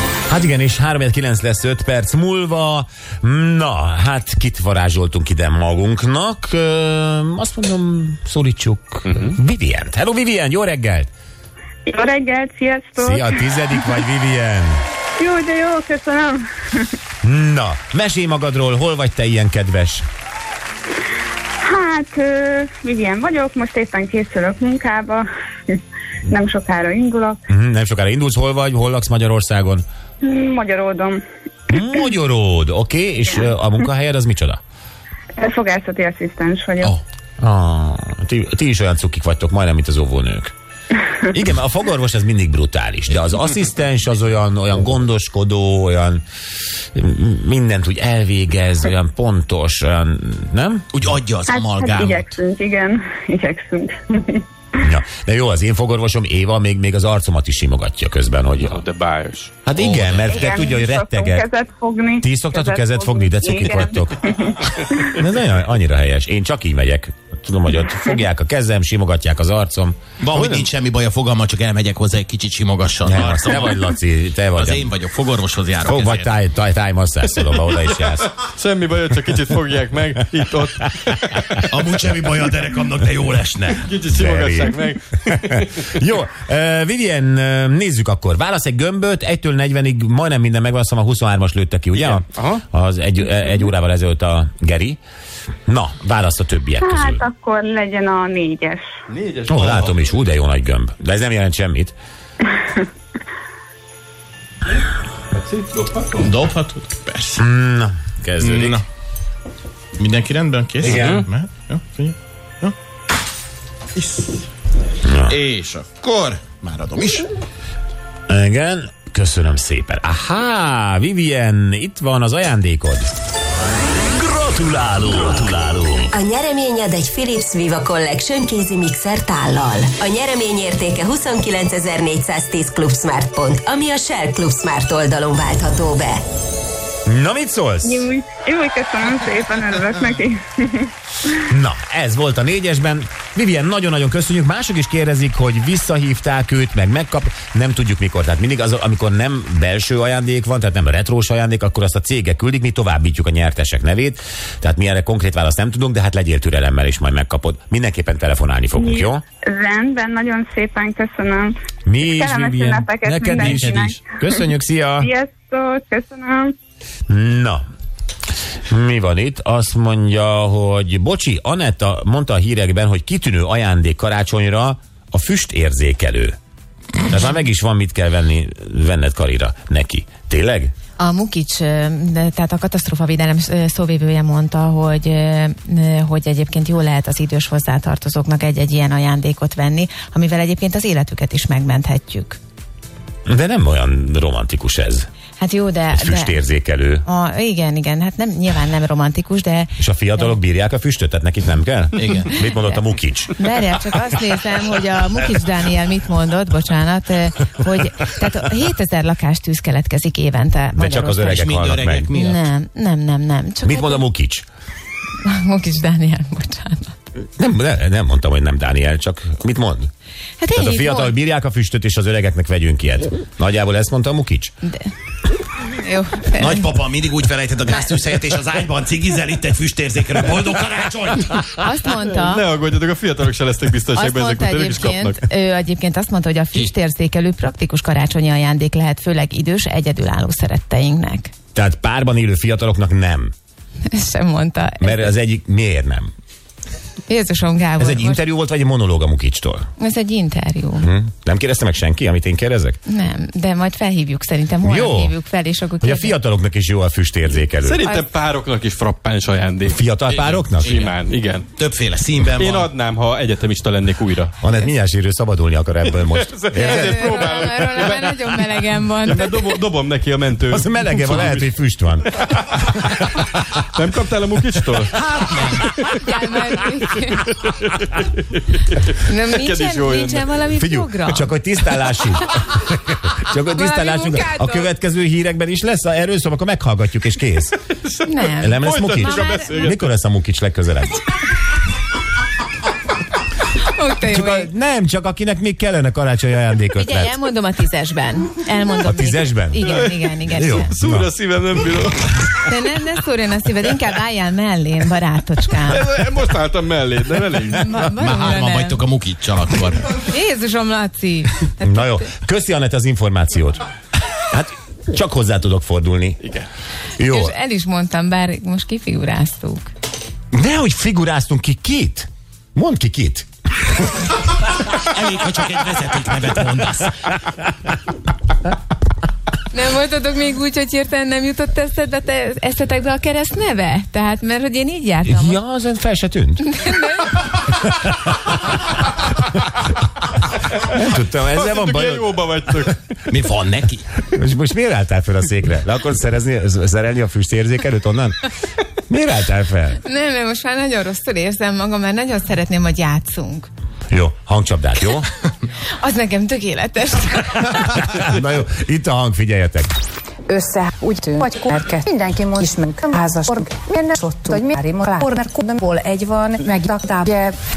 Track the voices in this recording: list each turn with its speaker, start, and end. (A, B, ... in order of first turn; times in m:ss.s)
0:00.3-0:11.1 A
0:09.1-0:09.3 B
0:11.9-0:14.0 C
0:13.0-0:14.8 A
0:15.2-0:16.9 C
0:17.2-0:20.0 A
0:21.6-0:27.4 C
0:27.5-0:29.8 A
0:30.2-0:31.2 C
0:31.7-0:34.6 A
0:35.4-0:37.0 C
0:36.9-0:40.5 A
0:41.3-0:46.2 A
0:46.9-0:50.9 A
0:50.9-0:52.4 D
0:51.5-0:54.4 C
0:54.8-0:58.8 A
0:58.6-0:59.5 B
0:59.7-1:01.5 A
0:59.7-1:00.5 D
1:00.1-1:05.2 C
1:02.2-1:04.2 A
1:05.1-1:10.0 A
1:10.2-1:13.8 D
1:10.4-1:10.6 B
1:13.0-1:14.9 A
1:14.5-1:16.4 D
1:15.8-1:18.3 A
1:18.4-1:21.6 B
1:21.7-1:23.9 D
1:23.8-1:25.7 B
1:24.1-1:35.0 A
1:32.0-1:32.6 B
1:35.7-1:37.2 A
1:36.8-1:38.8 C
1:39.1-1:40.0 B
1:39.5-1:41.9 A
1:45.4-1:46.3 B
1:46.2-1:47.4 D
1:47.4-1:48.8 A
1:48.4-1:48.8 D
1:50.0-1:52.7 D
1:50.8-1:51.2 A
1:50.9-1:51.2 B
1:55.0-1:55.4 A
1:55.2-1:57.3 D
1:58.3-2:03.1 A
2:04.1-2:06.1 E
2:06.1-2:16.2 F
2:17.1-2:18.1 A
2:17.8-2:21.3 C
2:21.5-2:39.2 A
2:38.8-2:44.0 C
2:41.9-2:45.1 A
2:43.4-2:43.8 D
2:45.0-2:46.5 C
2:47.1-2:47.6 A
2:48.7-2:56.4 A
2:57.1-3:00.7 A
3:01.0-3:12.4 G
3:13.3-3:15.1 A
3:15.4-3:16.4 G
3:15.9-3:17.1 A
3:17.0-3:20.3 G
3:19.8-3:23.3 A
3:22.0-3:22.4 D
3:22.4-3:22.8 G
3:23.3-3:31.5 G
3:30.8-3:32.1 A
3:31.4-3:32.4 D
3:32.1-3:34.0 G
3:33.6-3:34.5 A
3:35.2-3:37.0 G
3:37.4-3:39.9 A
3:40.4-3:41.1 G
3:40.5-3:44.5 A
3:45.7-3:46.8 G
3:46.4-3:51.5 D
3:51.5-3:52.5 G
3:52.1-3:55.2 B
3:53.9-4:01.3 G
4:01.6-4:03.3 A
4:03.9-4:05.0 G
4:04.8-4:06.1 A
4:07.1-4:08.2 G
4:07.8-4:09.7 A
4:09.8-4:10.9 G
4:10.8-4:12.8 A
4:12.9-4:16.2 G
4:14.6-4:15.2 A
4:15.8-4:17.9 A
4:17.6-4:21.5 B
4:17.8-4:18.1 G
4:19.6-4:20.9 A
4:21.6-4:22.7 D
4:22.4-4:24.4 B
4:24.4-4:27.5 A
4:26.0-4:31.5 B
4:26.6-4:29.4 G
4:30.5-4:33.2 A
4:32.3-4:36.0 B
4:36.0-4:37.3 G
4:37.4-4:40.4 B
4:39.0-4:41.3 G
4:40.6-4:47.6 A
4:43.5-4:44.7 G
4:47.8-4:49.9 B
4:48.0-4:49.7 G
4:48.3-4:51.0 A
4:53.6-4:54.5 G
4:54.0-4:57.2 A
4:56.8-5:00.7 G
4:58.8-4:59.7 A
4:59.7-5:02.4 B
5:00.3-5:01.1 A
5:02.4-5:05.8 G
5:05.7-5:07.9 B
5:07.6-5:08.8 G
5:07.9-5:10.0 D
5:10.0-5:12.1 G
5:11.6-5:13.6 A
5:14.3-5:16.2 A
5:17.0-5:17.3 A
5:17.0-5:19.7 G
5:20.3-5:23.3 A
5:24.8-5:27.0 D
5:29.5-5:35.4 G
5:35.1-5:36.8 A
5:36.5-5:37.5 G
5:37.6-5:38.5 A
5:40.7-5:42.1 A
5:41.3-5:42.8 B
5:43.1-5:43.9 D
5:44.0-5:48.3 A
5:48.9-5:49.8 A
5:49.8-5:53.5 G
5:53.9-5:55.1 A
5:55.8-5:57.6 G
5:57.7-5:59.7 A
6:00.3-6:07.4 H